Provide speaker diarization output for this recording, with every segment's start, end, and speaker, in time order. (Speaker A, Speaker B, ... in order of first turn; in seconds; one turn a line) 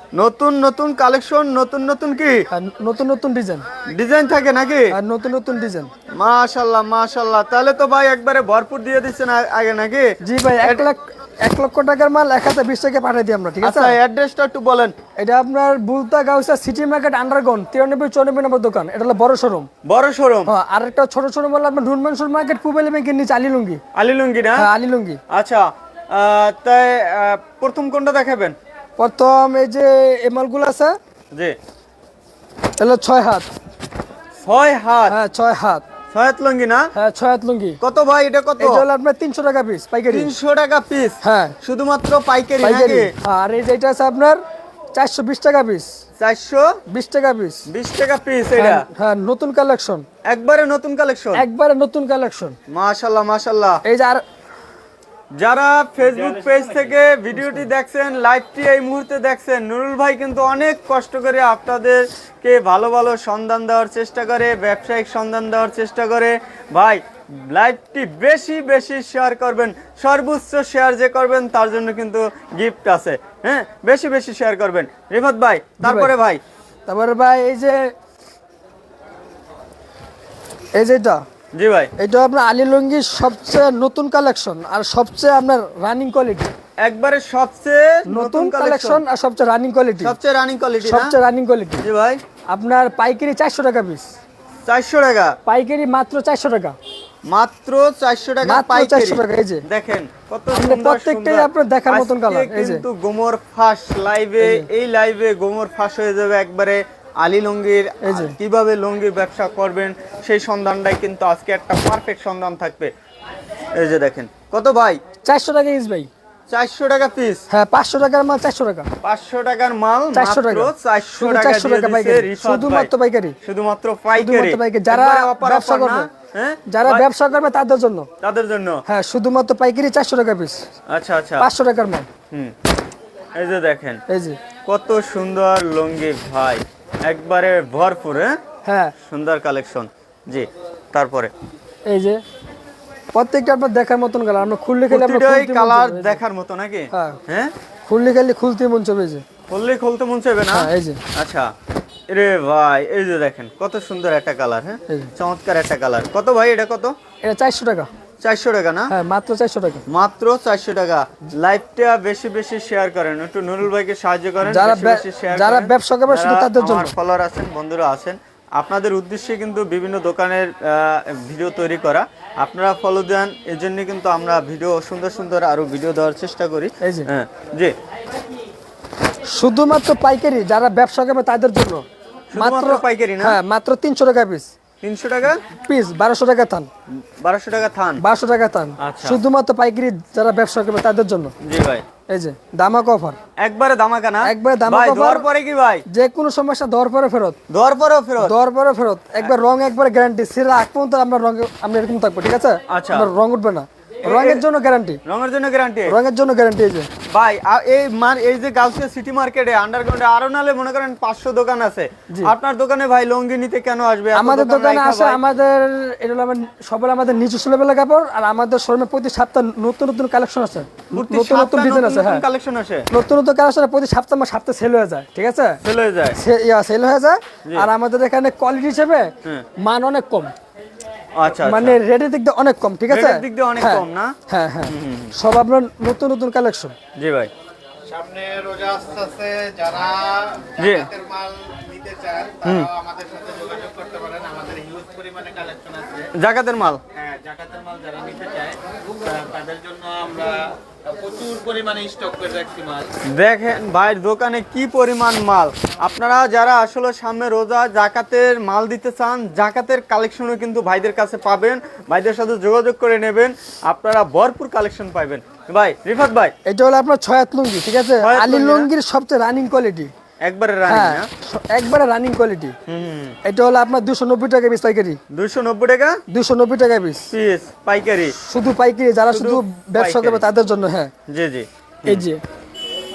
Speaker A: 0.1-2.5
Speaker B: 2.5-3.6
Speaker A: 3.9-4.9
Speaker B: 4.9-5.9
Speaker A: 6.1-10.9
Speaker B: 10.2-13.9
Speaker A: 13.6-14.9
Speaker B: 15.2-19.7
Speaker A: 19.8-20.5
Speaker B: 20.4-23.8
Speaker A: 23.9-24.7
Speaker B: 24.6-25.2
Speaker A: 25.3-28.6
Speaker B: 29.0-30.9
Speaker B: 32.8-33.5
Speaker A: 34.4-35.1
Speaker B: 35.1-35.8
Speaker A: 36.1-36.9
Speaker B: 36.9-37.8
Speaker A: 37.8-38.8
Speaker B: 38.6-40.3
Speaker A: 40.1-43.1
Speaker B: 41.2-41.5
Speaker B: 42.6-44.4
Speaker B: 44.9-45.9
Speaker A: 46.2-46.8
Speaker B: 46.9-47.7
Speaker A: 47.7-48.9
Speaker B: 48.5-50.0
Speaker A: 50.2-51.5
Speaker B: 51.3-52.6
Speaker A: 52.7-53.8
Speaker B: 53.8-54.2
Speaker A: 55.4-76.4
Speaker C: 56.2-56.9
Speaker B: 57.3-57.6
Speaker B: 75.8-76.1
Speaker B: 76.9-77.9
Speaker B: 80.8-81.2
Speaker A: 81.5-81.9
Speaker B: 82.0-86.5
Speaker A: 86.8-89.0
Speaker B: 88.1-90.2
Speaker A: 90.0-91.1
Speaker B: 90.8-91.8
Speaker A: 91.8-92.2
Speaker B: 92.5-94.1
Speaker A: 94.7-95.3
Speaker B: 95.5-96.8
Speaker A: 97.3-112.9
Speaker B: 98.4-99.6
Speaker B: 100.5-102.8
Speaker B: 104.4-104.7
Speaker B: 108.0-108.3
Speaker A: 113.7-115.0
Speaker B: 115.2-116.1
Speaker A: 116.5-117.5
Speaker B: 117.5-118.9
Speaker A: 119.0-122.9
Speaker B: 120.1-123.3
Speaker A: 123.4-127.0
Speaker B: 124.1-126.1
Speaker B: 126.7-128.1
Speaker A: 128.2-128.8
Speaker B: 128.8-130.6
Speaker A: 130.9-131.5
Speaker B: 131.4-132.1
Speaker A: 133.3-134.0
Speaker B: 134.1-134.4
Speaker A: 134.6-138.4
Speaker B: 138.6-138.9
Speaker A: 139.0-141.3
Speaker B: 141.9-142.2
Speaker B: 143.1-146.2
Speaker A: 144.9-147.5
Speaker B: 146.9-147.2
Speaker B: 147.9-149.2
Speaker A: 149.5-151.5
Speaker B: 150.5-151.0
Speaker A: 152.1-156.9
Speaker B: 154.9-155.1
Speaker B: 157.2-157.9
Speaker A: 158.2-158.9
Speaker B: 158.9-159.8
Speaker A: 159.9-177.7
Speaker B: 164.4-166.9
Speaker B: 176.8-177.1
Speaker B: 179.3-181.8
Speaker A: 182.3-183.4
Speaker B: 182.3-184.5
Speaker A: 184.8-185.4
Speaker B: 185.6-186.7
Speaker A: 186.9-188.0
Speaker B: 188.0-191.3
Speaker A: 188.8-189.2
Speaker A: 191.4-191.8
Speaker B: 192.1-193.2
Speaker A: 193.4-195.8
Speaker B: 194.2-195.2
Speaker B: 195.9-197.4
Speaker A: 197.5-198.3
Speaker B: 198.2-205.0
Speaker A: 202.7-203.1
Speaker A: 204.0-204.4
Speaker A: 205.0-205.9
Speaker B: 205.8-206.9
Speaker A: 207.1-215.2
Speaker B: 214.1-222.2
Speaker A: 220.9-222.9
Speaker B: 222.9-225.6
Speaker A: 225.6-226.2
Speaker B: 226.2-230.3
Speaker A: 231.2-231.8
Speaker B: 231.4-236.7
Speaker A: 232.9-234.2
Speaker A: 234.7-235.1
Speaker A: 236.9-237.3
Speaker C: 237.8-246.1
Speaker A: 240.6-240.9
Speaker A: 242.4-242.7
Speaker A: 246.1-246.8
Speaker C: 246.9-252.9
Speaker A: 253.0-266.3
Speaker B: 266.4-269.9
Speaker A: 268.0-268.7
Speaker A: 270.2-271.1
Speaker B: 270.7-272.6
Speaker A: 272.7-273.2
Speaker B: 273.2-275.0
Speaker A: 275.1-276.0
Speaker B: 276.1-277.1
Speaker A: 277.1-278.1
Speaker B: 278.1-280.9
Speaker A: 279.1-280.2
Speaker A: 281.1-282.1
Speaker B: 281.8-282.2